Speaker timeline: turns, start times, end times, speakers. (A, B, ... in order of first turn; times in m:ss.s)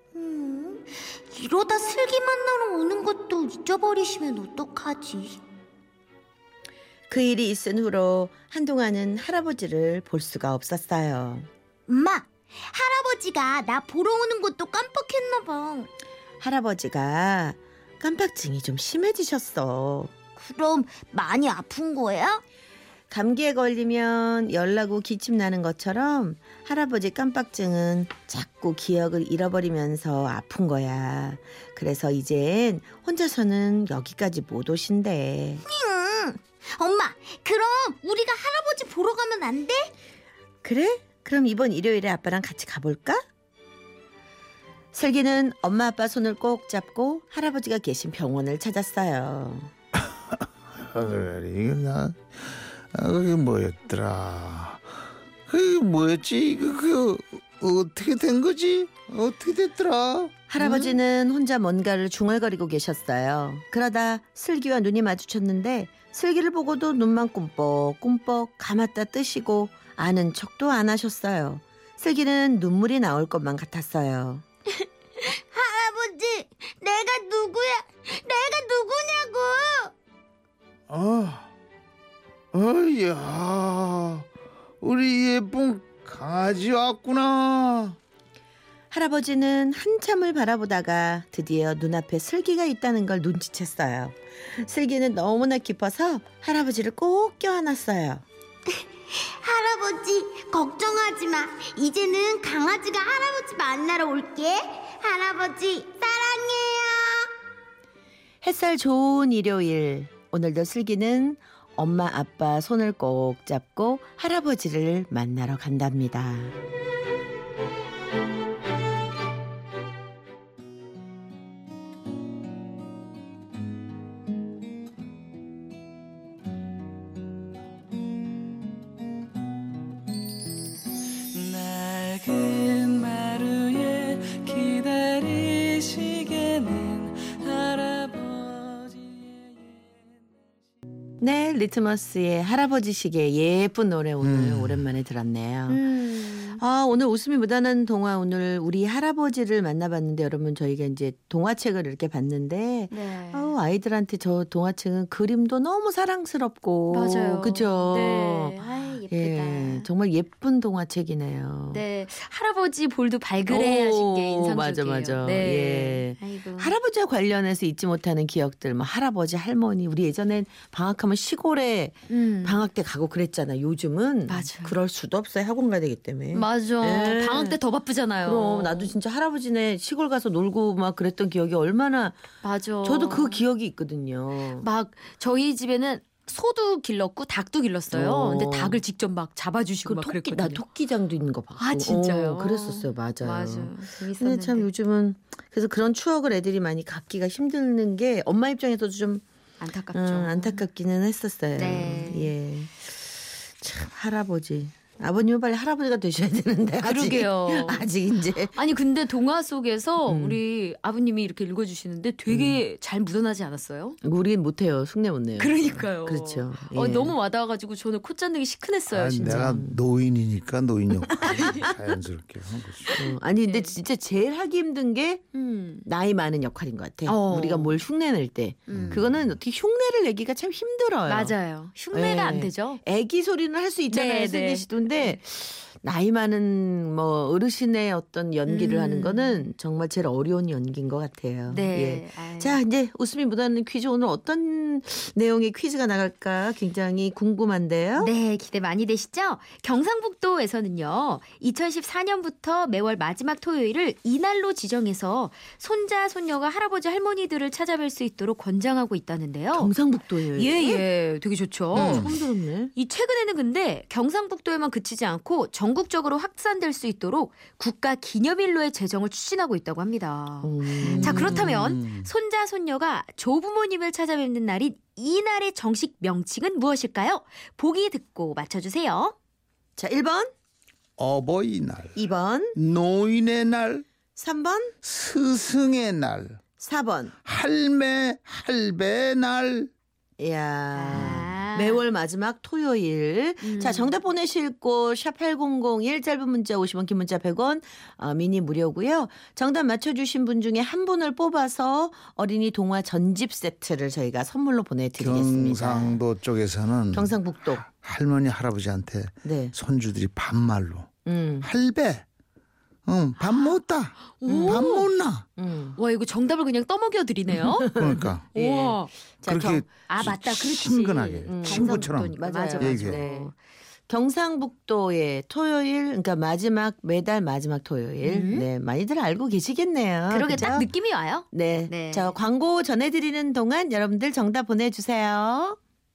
0:00.1-0:05.4 A
0:07.1-0:11.5 B
0:11.9-0:15.9 A
0:16.4-0:20.1 B
0:20.4-0:22.4 A
0:23.1-0:35.6 B
0:35.6-0:39.9 A
0:40.6-0:43.2 B
0:44.9-0:49.7 B
0:50.8-0:54.8 C
0:55.5-1:00.3 C
1:00.5-1:14.4 B
1:00.6-1:01.0 D
1:15.3-1:19.9 A
1:20.9-1:21.5 C
1:22.5-1:24.3 C
1:24.8-1:28.0 C
1:28.9-1:38.2 B
1:38.8-1:47.3 A
1:48.4-1:56.5 B
2:11.6-2:18.5 E
2:21.2-2:25.8 B
2:24.2-2:24.8 C
2:25.7-2:26.6 D
2:26.5-2:41.8 B
2:32.9-2:33.5 D
2:36.9-2:39.9 D
2:41.7-2:46.7 D
2:43.5-2:57.6 B
2:52.1-2:52.6 D
2:54.3-2:54.8 D
2:56.3-2:58.9 D
2:58.2-3:02.2 B
3:02.4-3:03.4 D
3:02.8-3:04.6 B
3:04.6-3:10.6 D
3:07.9-3:08.8 B
3:09.8-3:19.2 B
3:11.6-3:14.7 D
3:19.6-3:20.6 D
3:19.9-3:22.9 B
3:21.6-3:22.3 D
3:23.6-3:28.5 B
3:26.8-3:27.9 D
3:28.5-3:34.0 D
3:30.0-3:30.4 B
3:32.3-3:32.6 B
3:34.0-3:37.2 B
3:35.4-3:39.6 D
3:38.9-3:43.0 C
3:39.2-3:39.8 B
3:42.9-3:45.2 B
3:43.0-3:43.7 D
3:45.3-3:45.8 D
3:45.8-3:51.3 B
3:47.1-3:47.8 D
3:48.7-3:49.0 D
3:48.7-3:49.0 C
3:51.1-3:52.8 D
3:51.9-4:08.1 B
3:53.9-3:55.2 D
3:58.4-3:59.4 D
4:01.5-4:02.6 D
4:08.0-4:19.7 D
4:19.5-4:20.8 B
4:20.3-4:22.2 D
4:21.7-4:22.7 B
4:21.7-4:22.1 C
4:22.7-4:39.1 D
4:30.4-4:31.5 B
4:30.8-4:32.1 C
4:39.8-4:40.3 B
4:41.0-4:42.0 C
4:41.9-4:42.6 B
4:42.5-4:43.9 C
4:44.2-4:44.8 B
4:44.8-4:46.4 C
4:46.6-4:47.1 B
4:47.2-4:49.7 C
4:50.2-5:06.0 B
4:50.7-4:51.8 D
4:53.4-4:53.9 D
5:05.0-5:12.0 C
5:06.9-5:07.6 B
5:09.2-5:09.5 B
5:11.0-5:11.5 B
5:12.8-5:15.3 C
5:14.2-5:14.9 D
5:14.3-5:14.7 B
5:15.4-5:15.8 B
5:15.8-5:17.7 D
5:17.3-5:19.6 B
5:17.7-5:18.3 C
5:18.3-5:18.9 D
5:19.2-5:23.0 C
5:19.9-5:23.3 D
5:21.3-5:23.3 B
5:23.9-5:30.7 B
5:28.0-5:28.4 D
5:30.1-5:32.1 D
5:31.3-5:35.6 B